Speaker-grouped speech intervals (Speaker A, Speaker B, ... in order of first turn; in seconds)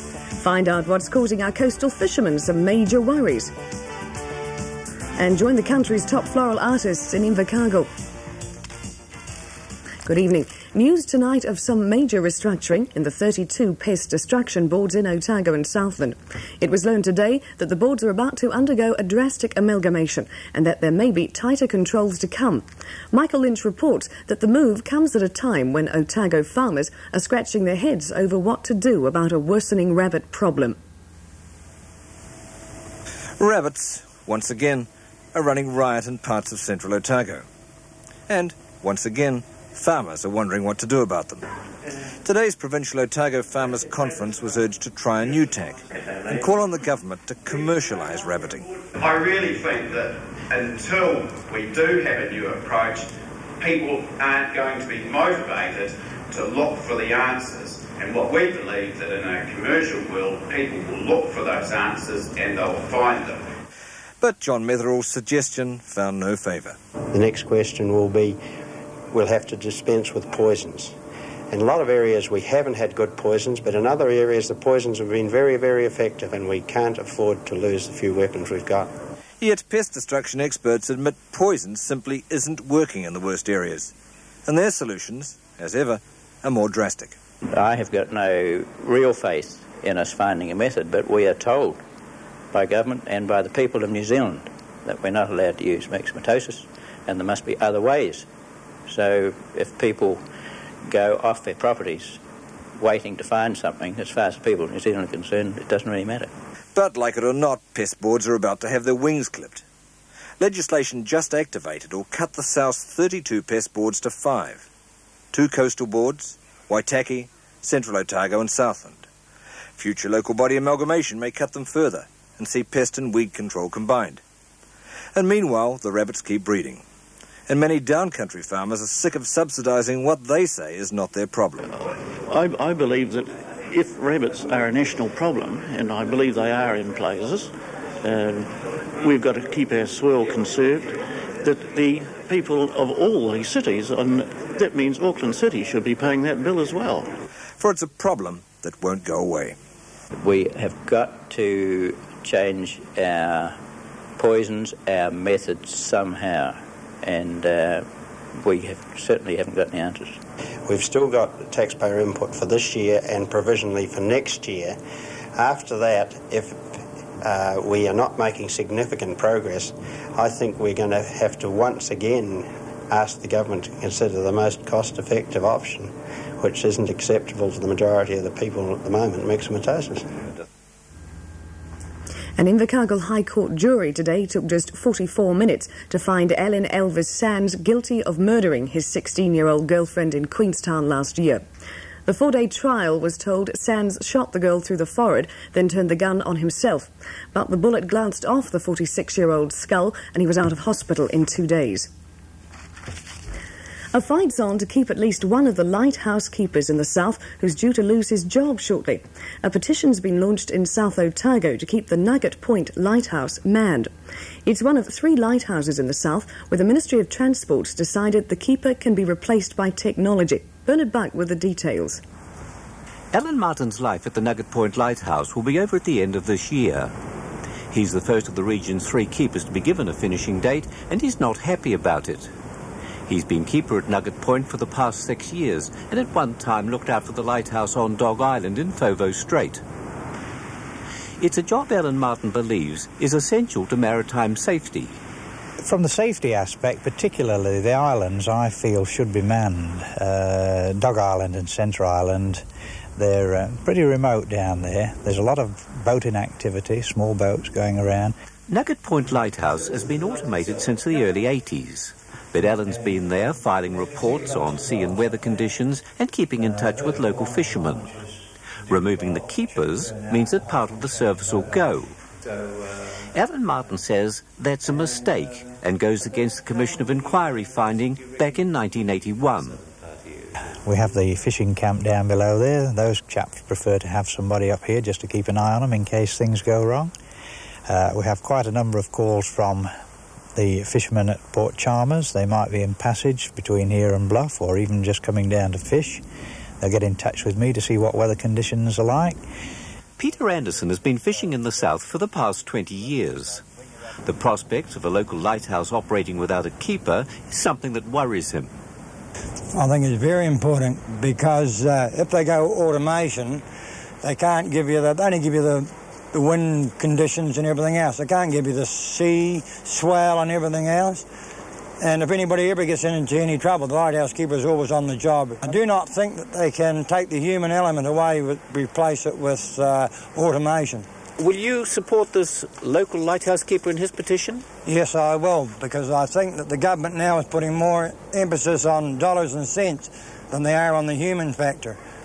Speaker A: 0.4-3.5, 5.2-7.9, 10.1-30.8, 182.4-191.4, 192.1-201.9, 203.9-213.9, 214.5-222.0
Speaker B: 33.4-37.5, 38.3-41.4, 42.2-48.7, 64.2-66.8, 79.4-83.9, 84.5-87.2, 106.8-109.7, 110.4-114.7, 115.3-119.1, 119.8-124.2, 125.2-126.8, 127.5-131.6, 147.6-149.6
Speaker C: 49.2-49.9, 50.6-50.8, 51.9-53.0, 53.6-55.7, 56.4-57.1, 57.8-63.2
Speaker D: 67.1-68.4, 69.1-70.9, 71.5-78.9, 160.7-164.8, 165.4-166.6, 167.2-180.0
Speaker E: 87.5-91.8, 92.5-98.3, 98.9-100.2, 100.9-102.2, 102.8-106.3, 150.1-153.6, 154.2-157.9, 158.4-160.2
Speaker F: 132.3-137.5, 138.0-138.5, 139.0-147.1
Speaker G: 223.1-226.9, 227.7-232.3, 233.1-239.6, 241.2-245.0, 258.5-267.9, 268.7-271.9, 273.1-279.6, 300.0-303.4, 304.0-308.5
Speaker H: 245.6-252.4, 253.0-258.1, 280.6-286.9, 287.7-289.7, 290.4-296.0, 296.6-299.2
Speaker I: 309.5-313.4, 314.0-321.1, 321.8-330.9, 334.7-341.8